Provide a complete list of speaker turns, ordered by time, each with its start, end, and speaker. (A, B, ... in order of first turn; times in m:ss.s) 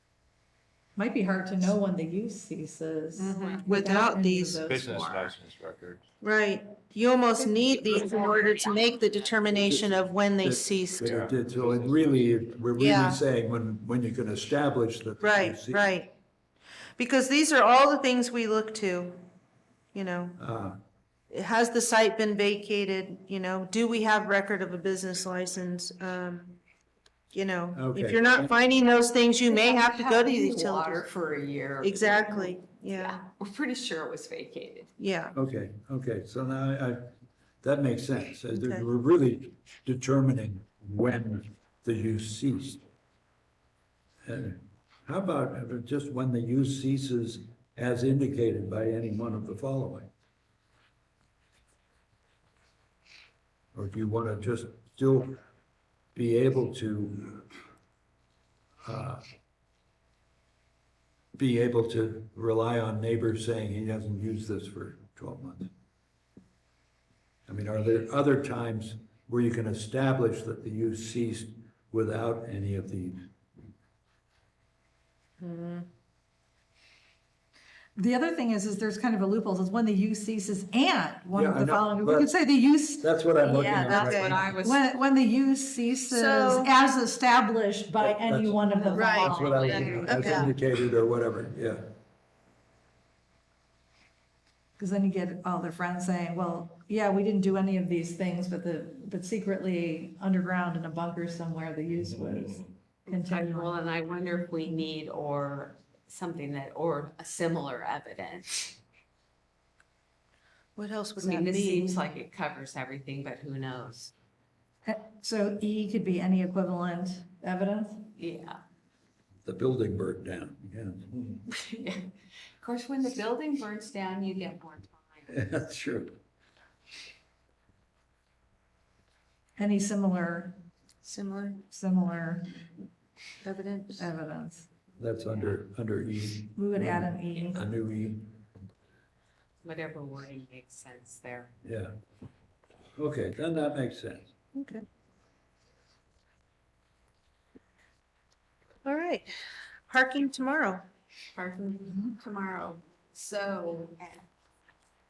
0:01.0-0:05.3 A
0:03.2-0:04.6 B
0:03.2-0:03.8 C
0:04.6-0:06.0 D
0:06.2-0:11.1 B
0:08.0-0:08.5 C
0:09.6-0:09.9 E
0:10.4-0:15.8 E
0:11.0-0:12.7 D
0:12.8-0:13.2 B
0:15.2-0:16.1 B
0:17.0-0:19.2 B
0:19.9-0:20.4 B
0:20.4-0:20.8 E
0:21.3-0:26.6 B
0:27.3-0:31.0 B
0:27.7-0:28.5 E
0:29.4-0:34.9 C
0:31.8-0:33.2 B
0:35.0-0:35.3 B
0:35.3-0:37.1 E
0:37.6-0:42.8 E
0:38.5-0:38.8 B
0:44.2-0:50.1 E
0:53.7-0:55.4 E
0:56.1-0:57.5 E
0:58.8-0:59.2 E
1:01.4-1:05.7 E
1:07.5-1:13.3 E
1:15.4-1:15.9 B
1:18.0-1:23.1 A
1:21.3-1:22.4 E
1:23.0-1:24.6 E
1:23.4-1:24.9 C
1:23.8-1:24.4 B
1:24.6-1:30.5 A
1:26.1-1:26.7 B
1:28.0-1:28.6 E
1:28.7-1:30.5 C
1:29.0-1:30.5 B
1:29.2-1:31.9 E
1:34.8-1:43.8 A
1:42.0-1:42.7 D
1:43.1-1:48.8 C
1:50.8-1:52.0 B
1:51.2-1:54.1 C
1:54.8-1:58.1 A
1:58.2-1:58.6 C
1:59.4-2:01.3 E
2:01.5-2:05.3 C
2:05.3-2:06.2 E
2:09.6-2:10.5 A
2:11.0-2:11.6 B
2:11.7-2:12.5 A
2:13.4-2:14.0 B
2:14.0-2:14.6 A
2:15.0-2:18.4 E
2:16.5-2:17.6 A
2:19.6-2:21.5 C
2:21.6-2:21.9 E
2:23.0-2:24.3 E
2:24.5-2:24.8 B
2:28.8-2:30.8 B
2:31.3-2:34.2 C